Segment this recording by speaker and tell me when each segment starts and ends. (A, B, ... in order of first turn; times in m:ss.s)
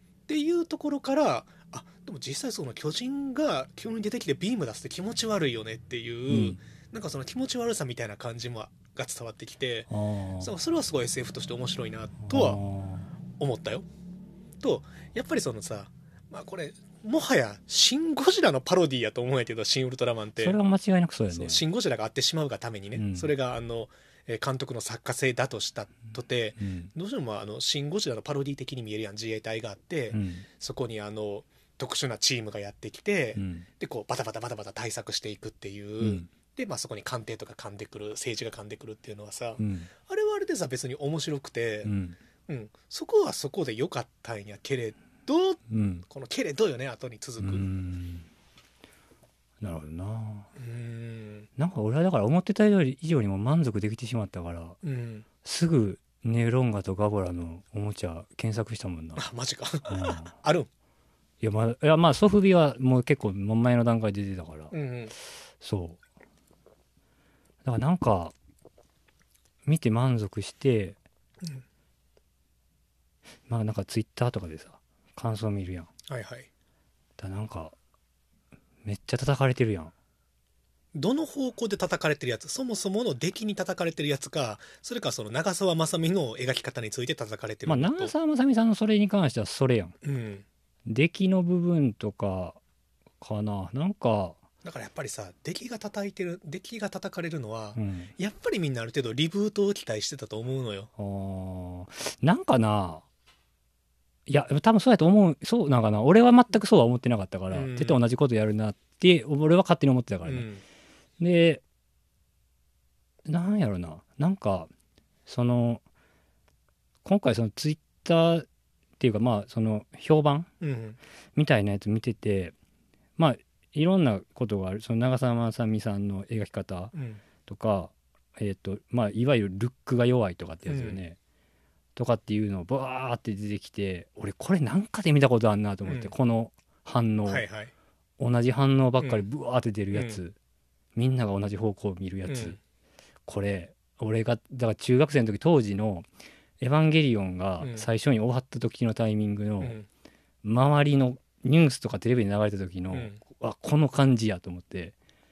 0:00.3-0:12.6 A
0:06.3-0:06.6 B
0:09.9-0:10.5 B
0:12.3-0:13.1 B
0:13.4-0:13.9 A
0:14.6-0:20.6 A
0:20.4-0:21.6 B
0:21.3-0:41.9 A
0:22.9-0:23.3 B
0:26.6-0:26.9 B
0:30.1-0:30.4 B
0:33.3-0:33.7 B
0:36.0-0:36.3 B
0:39.6-0:39.9 B
0:41.8-0:42.2 B
0:42.5-0:47.7 A
0:45.7-0:46.0 B
0:47.4-0:48.3 B
0:49.6-0:50.5 B
0:50.6-0:51.5 A
0:51.6-0:54.8 B
0:54.8-0:55.2 A
0:55.4-0:59.2 B
0:59.2-1:00.7 A
0:59.9-1:00.3 B
1:01.4-1:04.7 B
1:04.7-1:05.1 A
1:05.6-1:06.0 B
1:07.6-1:08.3 B
1:09.6-1:11.0 B
1:13.5-1:15.9 B
1:16.1-1:16.5 A
1:17.2-1:17.7 B
1:18.8-1:19.9 B
1:20.9-1:28.1 A
1:27.6-1:30.0 B
1:30.0-1:30.4 A
1:30.8-1:32.6 B
1:33.2-1:34.4 B
1:34.6-1:40.9 A
1:37.7-1:38.1 B
1:41.0-1:43.0 B
1:44.3-1:50.5 B
1:47.5-1:48.0 A
1:50.2-1:50.6 A
1:51.2-1:51.6 B
1:53.2-1:54.7 B
1:55.2-1:55.8 B
1:57.0-1:58.4 B
1:59.0-2:00.5 B
2:00.6-2:01.0 A
2:01.4-2:02.5 B
2:03.2-2:06.9 B
2:06.9-2:07.2 A
2:07.4-2:11.2 B
2:10.6-2:11.0 A
2:12.0-2:17.4 B
2:15.8-2:16.1 A
2:17.2-2:17.7 A
2:18.2-2:20.4 B
2:19.0-2:19.2 A
2:19.9-2:20.2 A
2:20.9-2:22.6 B
2:22.3-2:22.6 A
2:23.2-2:26.1 B
2:26.6-2:29.8 B
2:27.6-2:27.9 A
2:29.6-2:29.8 A
2:30.4-2:34.9 B
2:32.9-2:33.2 A